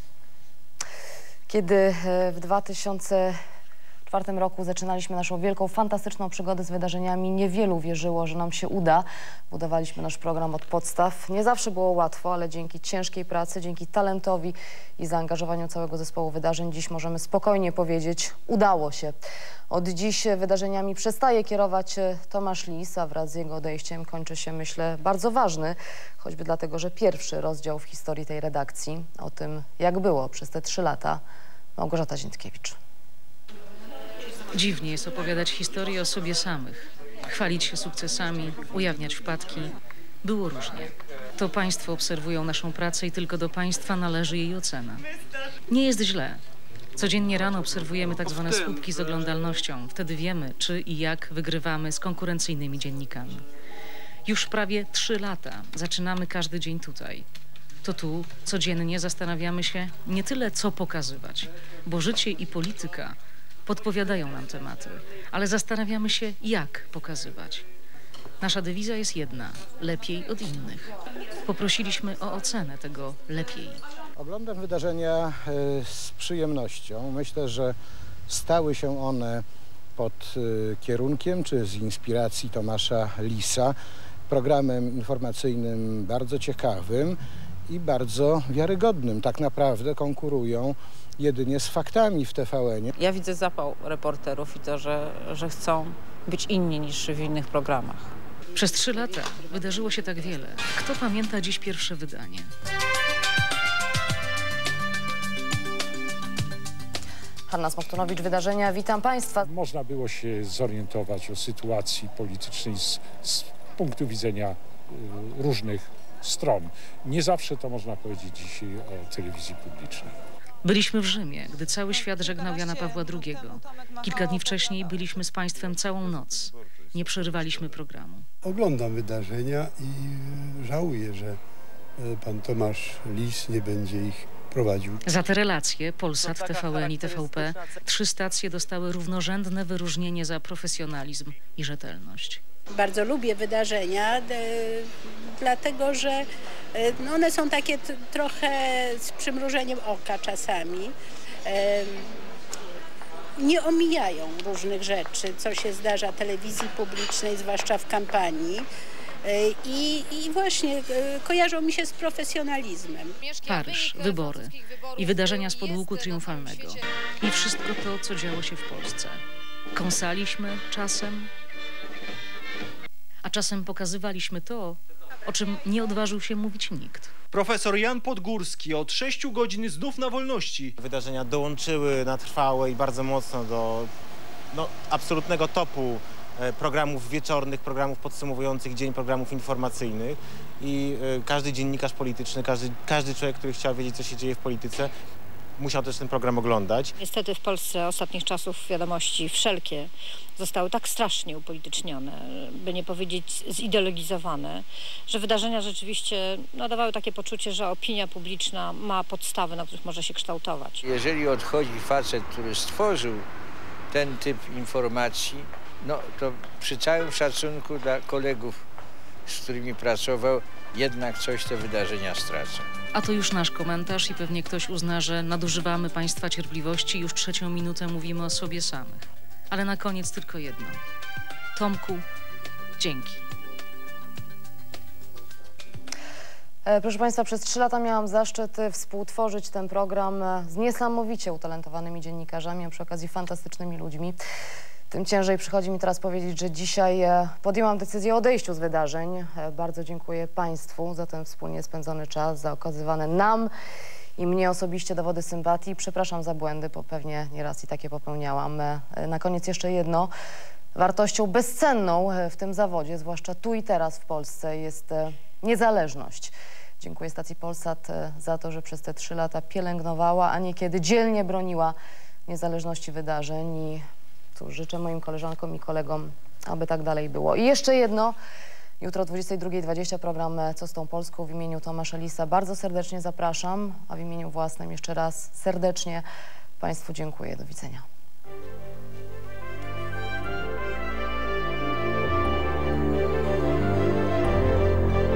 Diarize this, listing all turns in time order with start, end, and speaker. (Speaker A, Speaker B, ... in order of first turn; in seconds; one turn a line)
Speaker A: 1.5-3.4
Speaker A: 4.0-19.2
Speaker A: 19.7-31.2
Speaker A: 31.8-32.8
Speaker B: 34.5-45.0
Speaker B: 45.7-46.4
Speaker B: 47.0-53.4
Speaker B: 54.2-57.2
Speaker B: 57.8-63.1
Speaker B: 63.6-67.6
Speaker B: 68.4-70.9
Speaker B: 71.4-73.8
Speaker C: 74.2-77.8
Speaker C: 78.3-79.4
Speaker C: 80.0-83.7
Speaker C: 84.3-87.2
Speaker C: 87.7-92.9
Speaker D: 93.0-98.1
Speaker B: 98.5-102.5
Speaker A: 107.5-109.5
Speaker E: 109.4-120.1
Speaker B: 120.6-128.2
Speaker F: 128.4-131.4
Speaker F: 132.0-135.0
Speaker B: 135.1-142.4
Speaker G: 142.8-150.9
Speaker G: 151.4-152.1
Speaker G: 153.4-158.7
Speaker G: 159.2-163.1
Speaker B: 163.4-169.2
Speaker B: 169.7-171.3
Speaker B: 173.2-177.1
Speaker H: 177.3-180.8
Speaker I: 180.8-183.9
Speaker I: 184.5-194.9
Speaker I: 195.6-196.9
Speaker J: 197.0-210.9
Speaker K: 210.8-213.3
Speaker K: 213.9-218.6
Speaker K: 219.2-222.7
Speaker B: 222.9-230.8
Speaker B: 231.5-232.0
Speaker B: 232.8-233.2
Speaker A: 236.7-244.2
Speaker A: 244.9-253.5
Speaker A: 254.2-260.1
Speaker A: 260.7-271.7
Speaker A: 272.2-273.8
Speaker A: 274.4-278.2
Speaker A: 278.8-286.0
Speaker A: 286.6-287.9